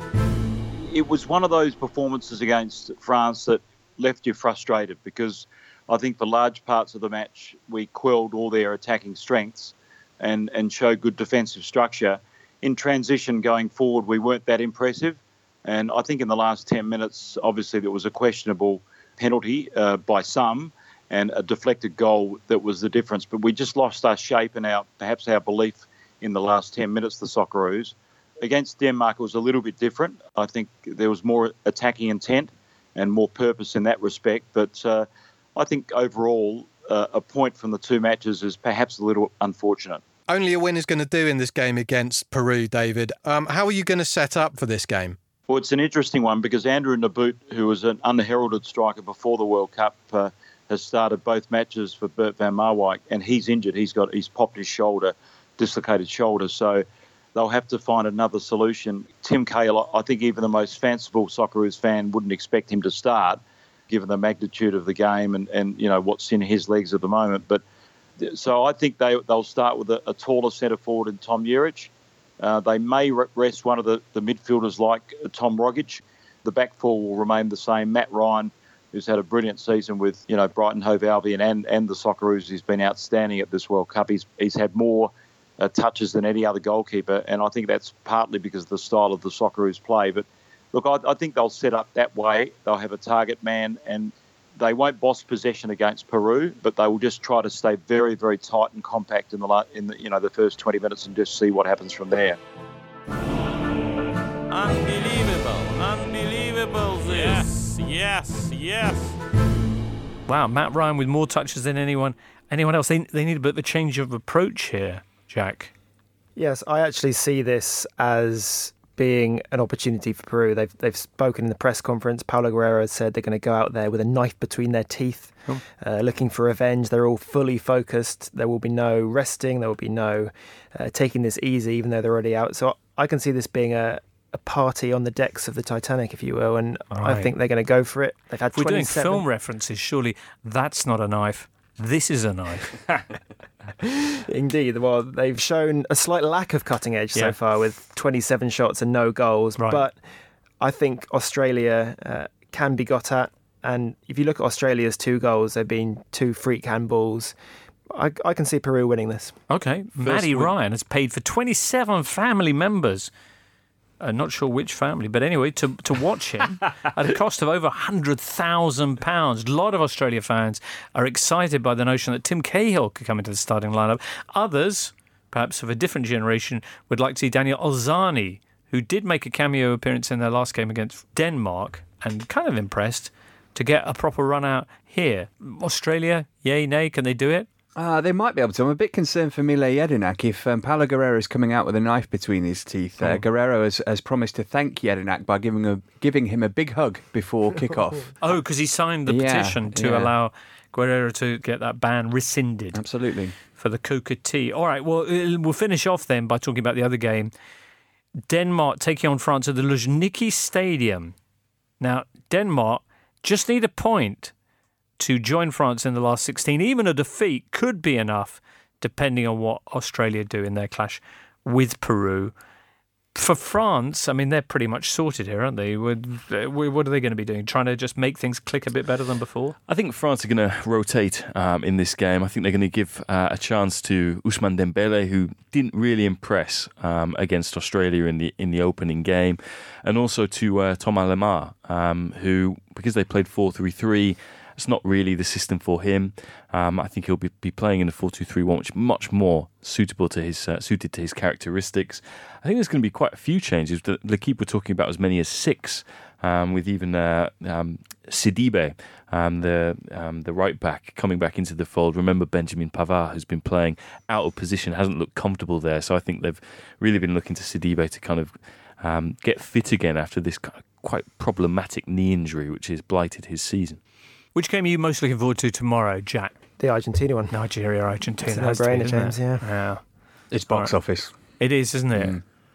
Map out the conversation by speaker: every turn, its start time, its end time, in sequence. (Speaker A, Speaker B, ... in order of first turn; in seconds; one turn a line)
Speaker A: 0.8-40.0
Speaker B: 40.3-45.1
Speaker A: 45.5-67.6
Speaker A: 68.2-102.4
Speaker C: 104.5-109.0
Speaker A: 107.1-107.6
Speaker D: 110.3-115.7
Speaker E: 116.3-139.2
Speaker D: 136.9-137.3
Speaker D: 138.5-142.8
Speaker E: 143.8-149.9
Speaker D: 149.6-149.8
Speaker E: 150.6-157.3
Speaker E: 157.9-159.3
Speaker D: 159.5-163.1
Speaker F: 160.1-160.4
Speaker D: 164.0-187.5
Speaker F: 187.8-198.3
Speaker D: 193.0-193.2
Speaker D: 198.2-202.8
Speaker F: 199.1-200.1
Speaker F: 202.7-203.3
Speaker D: 203.5-207.3
Speaker D: 208.3-211.1
Speaker D: 211.8-214.3
Speaker D: 215.0-222.3
Speaker D: 223.1-229.6
Speaker G: 229.7-273.8
Speaker D: 274.3-276.3
Speaker E: 276.6-277.3
Speaker D: 277.3-279.8
Speaker E: 278.2-279.4
Speaker F: 280.3-281.1
Speaker D: 281.4-282.2
Speaker F: 281.9-282.2